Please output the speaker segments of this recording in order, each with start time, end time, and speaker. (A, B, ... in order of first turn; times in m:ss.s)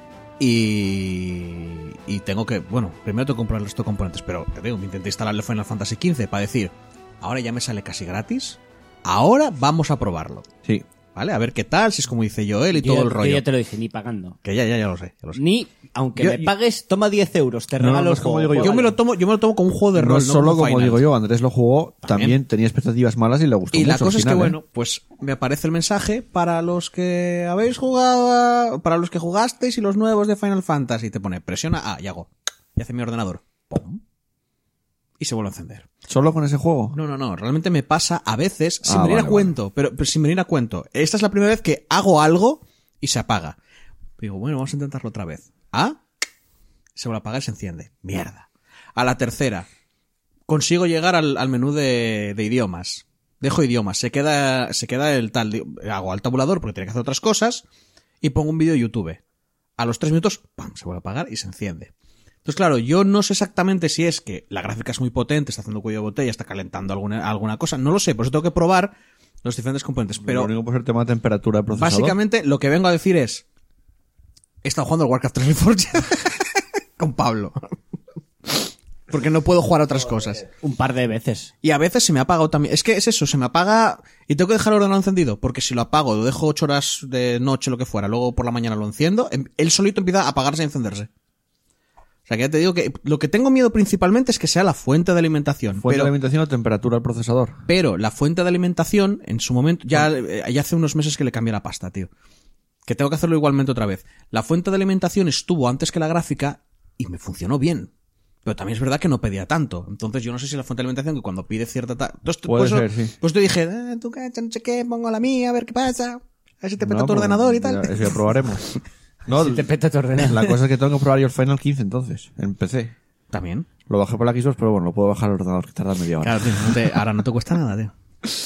0:00.4-0:10.5 A
0:11.1-0:13.4 A
0:12.7-0:14.4 B
0:14.4-0:15.4 A
0:15.4-0:18.9 B
0:16.2-0:16.4 A
0:17.8-0:18.9 C
0:18.6-0:21.1 A
0:19.9-0:24.6 C
0:22.0-0:22.4 A
0:23.7-0:34.0 A
0:35.2-0:35.9 A
0:36.1-0:37.0 C
0:36.9-0:43.6 A
0:38.8-0:39.6 C
0:44.2-0:46.0 A
0:47.0-0:49.7 A
0:50.5-0:57.6 A
0:58.2-0:59.2 A
0:59.8-1:01.9 A
1:02.4-1:10.5 A
1:10.2-1:12.2 C
1:11.7-1:13.4 A
1:14.6-1:17.6 A
1:18.5-1:20.4 A
1:20.5-1:21.5 B
1:21.6-1:31.1 A
1:32.3-1:36.1 A
1:35.8-1:37.6 C
1:37.7-1:42.1 A
1:42.8-1:47.9 A
1:48.4-1:58.3 A
1:52.5-1:53.1 C
1:56.8-1:58.7 C
1:59.3-2:02.9 C
1:59.3-2:00.6 B
2:03.3-2:03.7 A
2:03.9-2:07.0 C
2:06.2-2:07.9 A